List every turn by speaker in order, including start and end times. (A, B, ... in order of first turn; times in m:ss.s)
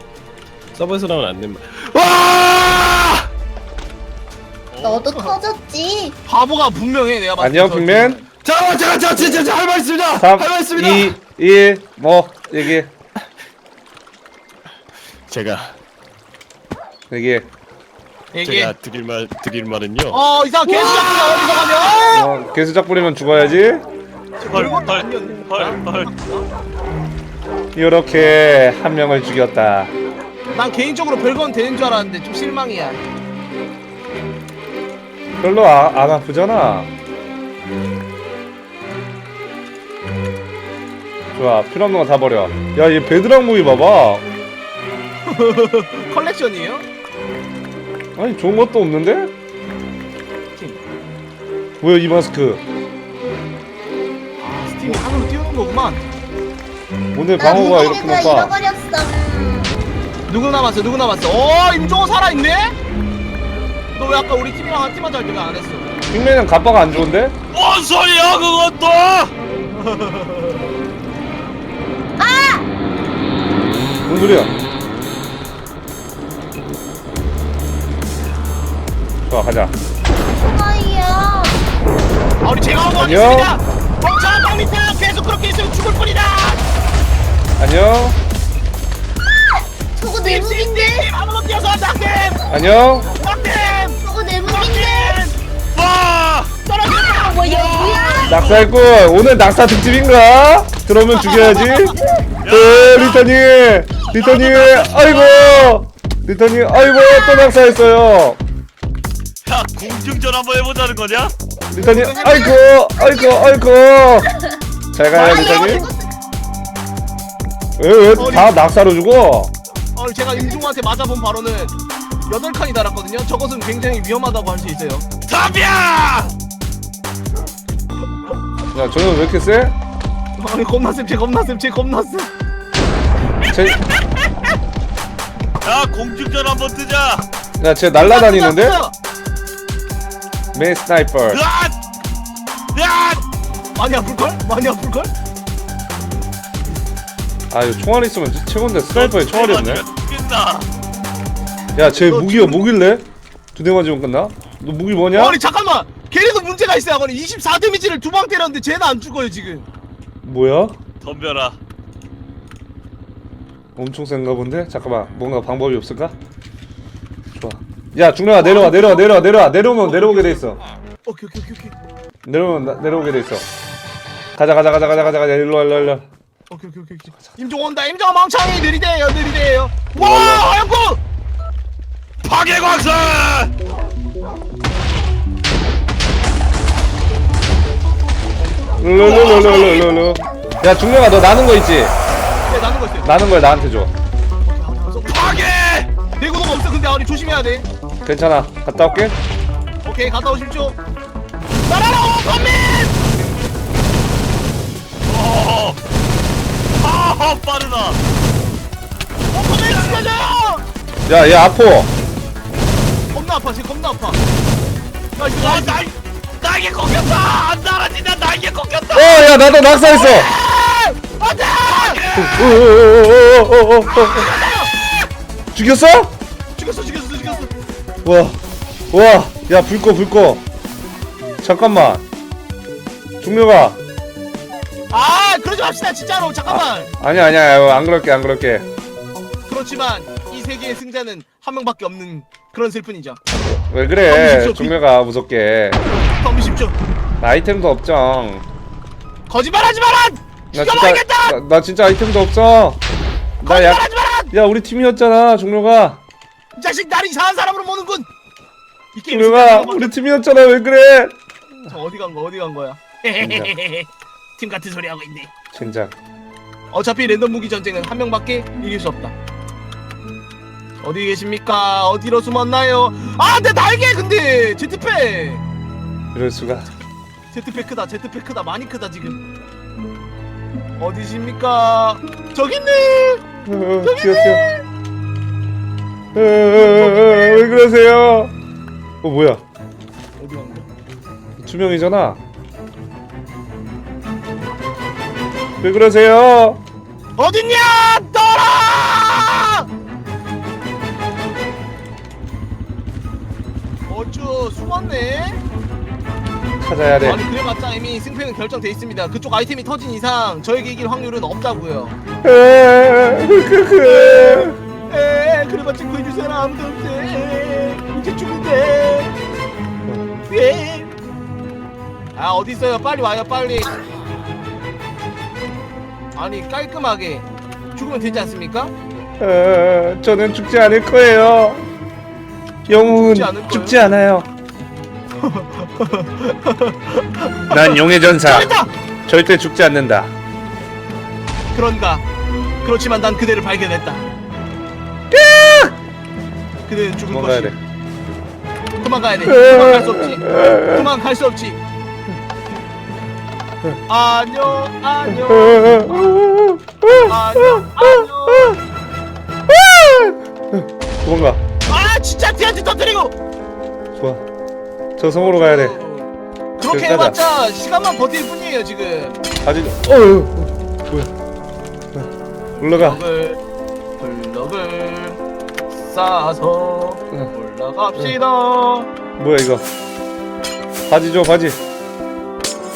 0:00.7-0:03.2 A
0:04.7-0:05.1 A
0:04.8-0:06.2 B
0:06.2-0:08.3 C
0:07.4-0:08.2 D
0:08.4-0:11.0 A
0:10.2-0:12.9 D
0:15.3-0:15.8 A
0:17.1-0:17.5 D
0:18.3-0:18.7 C
0:18.4-0:20.2 A
0:20.1-0:22.3 C
0:22.1-0:23.8 D
0:24.4-0:26.5 C
0:24.4-0:26.1 E
0:27.8-0:29.9 D
0:30.5-0:33.0 C
0:35.4-0:36.9 D
0:41.3-0:44.3 D
0:45.3-0:46.8 C
0:48.2-0:49.3 D
0:50.6-0:50.8 C
0:51.8-0:52.6 D
0:54.4-0:56.0 C
0:57.1-0:58.5 D
0:57.4-0:59.8 B
1:00.3-1:02.8 C
1:03.9-1:05.9 C
1:06.1-1:07.4 D
1:07.5-1:09.3 E
1:09.7-1:10.6 C
1:12.2-1:12.7 B
1:14.1-1:14.6 D
1:19.3-1:19.8 D
1:20.3-1:21.6 B
1:22.4-1:26.6 C
1:23.0-1:23.6 D
1:27.6-1:28.2 D
1:29.5-1:31.1 B
1:30.2-1:32.4 C
1:32.5-1:33.1 D
1:33.1-1:35.4 C
1:33.7-1:35.2 B
1:35.7-1:36.6 E
1:36.7-1:37.4 C
1:36.9-1:38.4 B
1:37.5-1:38.7 E
1:38.3-1:42.0 D
1:41.1-1:42.3 B
1:42.4-1:43.2 E
1:42.5-1:48.4 D
1:44.2-1:45.8 E
1:47.1-1:47.5 B
1:49.4-1:51.3 E
1:51.7-1:54.3 D
1:51.8-1:52.2 C
1:51.9-1:53.5 B
1:54.9-1:55.9 D
1:55.1-1:55.9 C
1:55.2-1:56.1 B
1:57.8-1:59.5 D
1:58.1-1:58.6 C
2:00.0-2:01.8 C
2:02.3-2:05.1 C
2:05.3-2:06.3 E
2:08.7-2:09.8 D
2:10.4-2:12.3 C
2:13.5-2:13.8 E
2:13.5-2:13.8 D
2:15.6-2:17.3 E
2:17.6-2:18.8 D
2:18.0-2:18.9 C
2:20.5-2:21.4 D
2:21.3-2:21.8 E
2:22.7-2:23.2 E
2:23.8-2:25.1 C
2:27.5-2:29.9 D
2:28.9-2:30.7 E
2:31.8-2:35.4 D
2:32.0-2:32.6 C
2:35.1-2:39.7 C
2:40.2-2:40.8 D
2:41.0-2:41.6 E
2:43.8-2:46.2 D
2:47.4-2:50.6 D
2:48.4-2:49.3 C
2:49.8-2:50.4 C
2:51.0-2:51.7 C
2:52.2-2:53.5 D
2:54.4-2:56.1 D
2:56.5-3:01.0 C
3:00.0-3:00.4 D
3:02.2-3:03.5 E
3:08.8-3:11.9 D
3:09.0-3:09.8 C
3:09.1-3:09.8 E
3:12.5-3:13.1 C
3:13.0-3:13.9 D
3:14.4-3:15.5 C
3:15.1-3:15.9 E
3:16.0-3:17.7 C
3:18.0-3:19.2 D
3:19.8-3:20.8 C
3:21.6-3:23.0 C
3:25.1-3:25.8 E
3:26.8-3:28.0 E
3:29.3-3:30.6 C
3:29.7-3:30.0 E
3:31.1-3:31.9 D
3:33.1-3:34.2 C
3:35.2-3:35.9 C
3:35.4-3:39.3 E
3:38.9-3:40.3 D
3:39.9-3:42.0 C
3:41.6-3:42.3 E
3:42.2-3:44.3 D
3:43.9-3:44.8 C
3:45.5-3:46.1 D
3:46.6-3:47.5 C
3:48.0-3:48.4 D
3:48.9-3:50.4 D
3:51.4-3:52.0 D
3:53.2-3:53.8 D
3:54.9-3:56.9 C
3:56.5-3:58.7 D
3:59.5-4:03.2 C
4:03.7-4:05.8 D
4:04.1-4:04.7 C
4:06.0-4:06.8 C
4:07.2-4:08.4 D
4:09.3-4:11.4 C
4:10.5-4:12.8 D
4:13.4-4:16.0 D
4:13.4-4:14.3 C
4:16.6-4:18.1 C
4:18.9-4:19.9 C
4:19.1-4:21.2 D
4:21.7-4:25.3 C
4:23.2-4:23.5 D
4:25.5-4:26.0 D
4:26.7-4:29.2 C
4:30.8-4:35.4 C
4:36.1-4:36.7 D
4:37.3-4:39.2 C
4:40.8-4:43.2 C
4:43.5-4:44.4 D
4:43.8-4:44.6 C
4:46.1-4:48.3 D
4:49.0-4:49.4 D
4:50.2-4:50.7 C
4:51.4-4:52.2 D
4:55.6-4:56.6 D
4:57.2-4:59.7 C
5:03.9-5:05.4 C
5:06.6-5:07.2 D
5:07.0-5:12.0 C
5:12.2-5:14.6 D
5:13.8-5:19.1 C
5:20.3-5:20.9 C
5:22.2-5:23.8 C
5:26.2-5:28.7 C
5:29.2-5:31.6 D
5:32.7-5:34.3 D
5:33.0-5:33.8 C
5:35.2-5:38.7 C
5:37.5-5:38.6 D
5:39.1-5:40.1 D
5:41.5-5:42.0 C
5:42.6-5:44.0 C
5:45.1-5:45.7 D
5:46.7-5:47.6 C
5:47.1-5:47.6 D
5:48.8-5:51.6 C
5:49.3-5:50.8 D
5:53.9-5:56.2 C
5:55.1-5:58.6 D
5:57.0-5:58.6 C
5:59.5-6:01.4 D
6:01.7-6:03.1 C
6:04.0-6:04.2 D
6:05.0-6:05.8 D
6:05.1-6:09.2 C
6:06.7-6:07.2 D
6:09.4-6:11.1 D
6:12.5-6:13.4 C
6:12.6-6:13.0 D
6:14.0-6:15.2 C
6:15.8-6:18.9 C
6:19.2-6:19.7 D
6:20.9-6:21.6 D